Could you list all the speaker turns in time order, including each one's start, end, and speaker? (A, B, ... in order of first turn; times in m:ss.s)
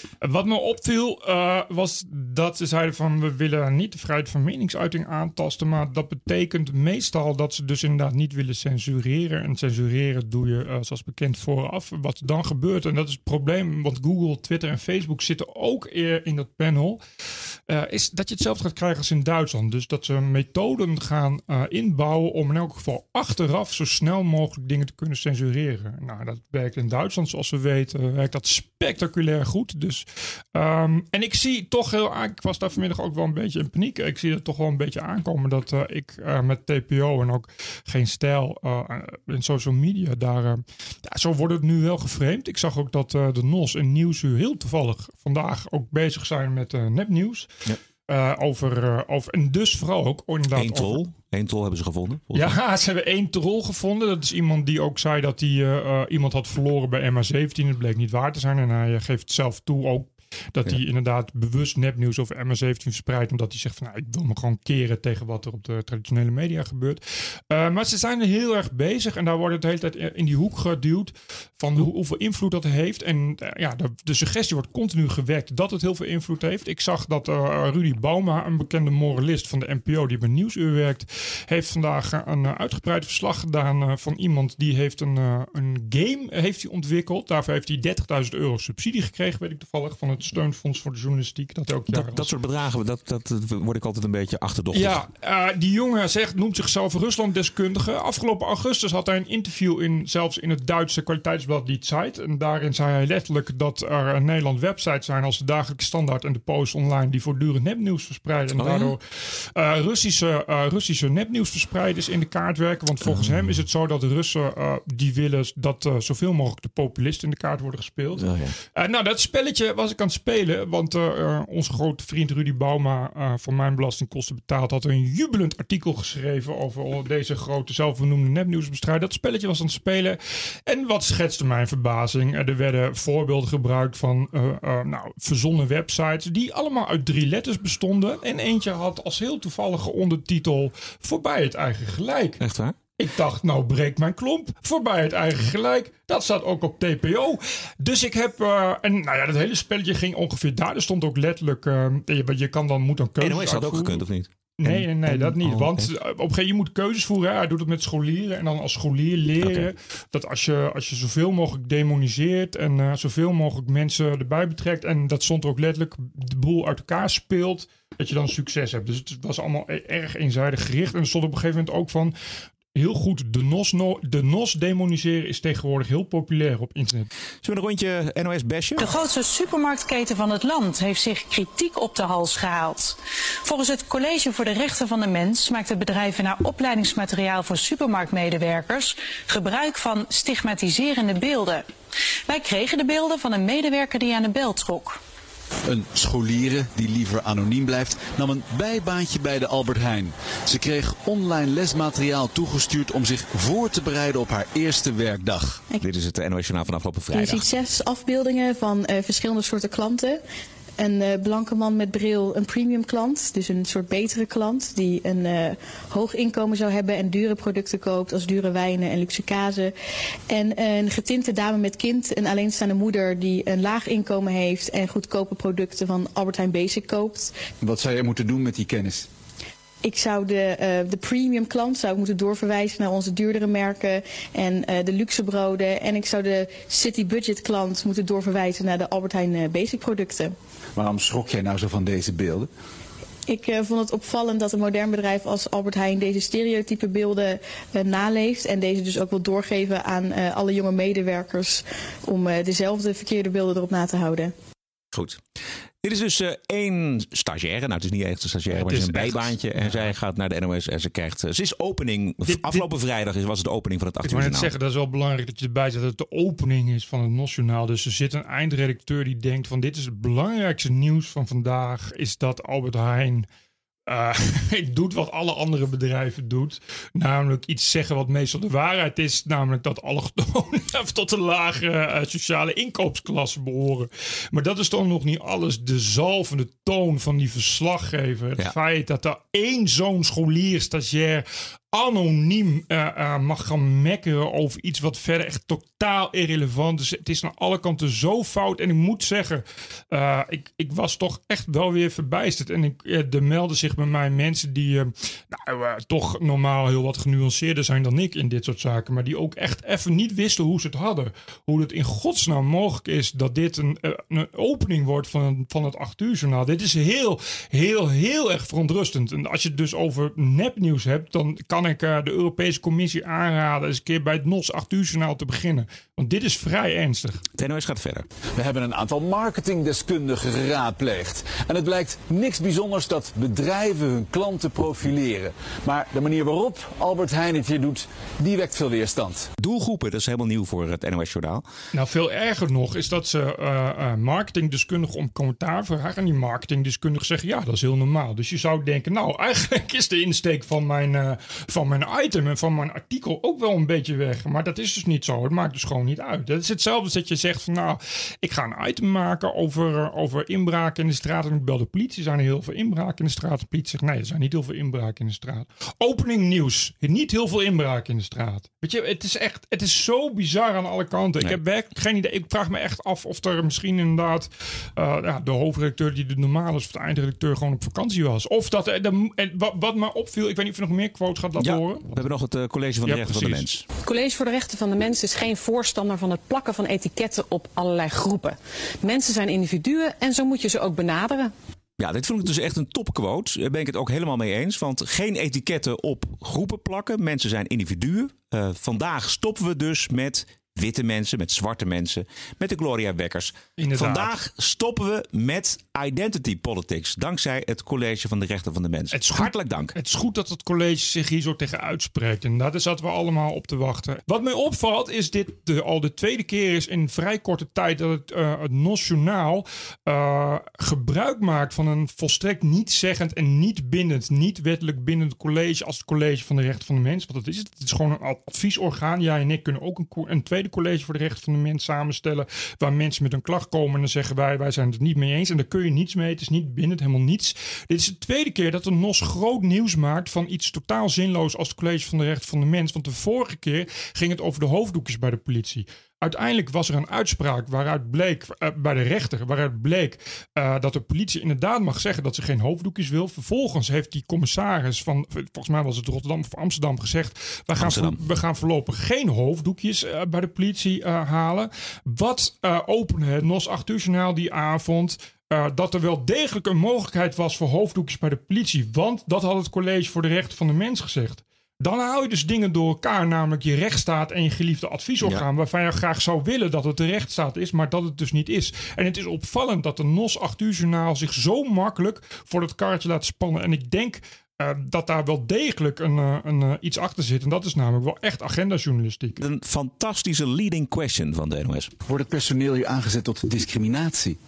0:00.2-0:17.0 A
0:17.7-0:47.5 A
0:48.1-0:51.0 A
0:50.5-0:52.6 B
0:52.3-1:32.3 A
1:31.9-1:35.0 B
1:34.7-1:49.0 A
1:48.5-1:48.9 B
1:49.5-2:22.4 A
1:53.0-1:53.6 B
1:58.2-1:58.5 B
2:22.4-2:22.8 B
2:23.0-2:34.0 A
2:33.2-2:35.9 B
2:34.6-2:52.1 A
2:39.4-2:39.7 B
2:52.7-2:57.1 A
2:57.4-2:59.0 B
2:58.8-3:11.7 C
3:12.3-3:15.0 C
3:15.7-3:25.6 D
3:25.8-3:27.4 B
3:27.1-3:30.2 E
3:30.8-3:39.7 E
3:40.3-3:47.3 E
3:47.6-3:49.1 D
3:49.8-4:00.4 E
4:00.8-4:02.5 D
4:03.3-4:14.3 E
4:14.9-4:15.2 B
4:15.8-4:24.5 B
4:18.5-4:19.9 A
4:22.2-4:22.7 A
4:24.0-4:33.2 A
4:33.9-5:27.2 A
5:27.4-5:28.1 B
5:28.4-5:39.3 D
5:39.4-5:41.4 B
5:41.7-6:22.0 A
6:21.4-6:23.6 B
6:22.8-6:23.5 A
6:23.8-6:31.3 F
6:31.8-6:49.7 B
6:43.6-6:44.1 A
6:48.9-8:09.2 A
7:37.5-7:38.0 B
8:09.2-8:11.7 B
8:11.9-8:14.2 D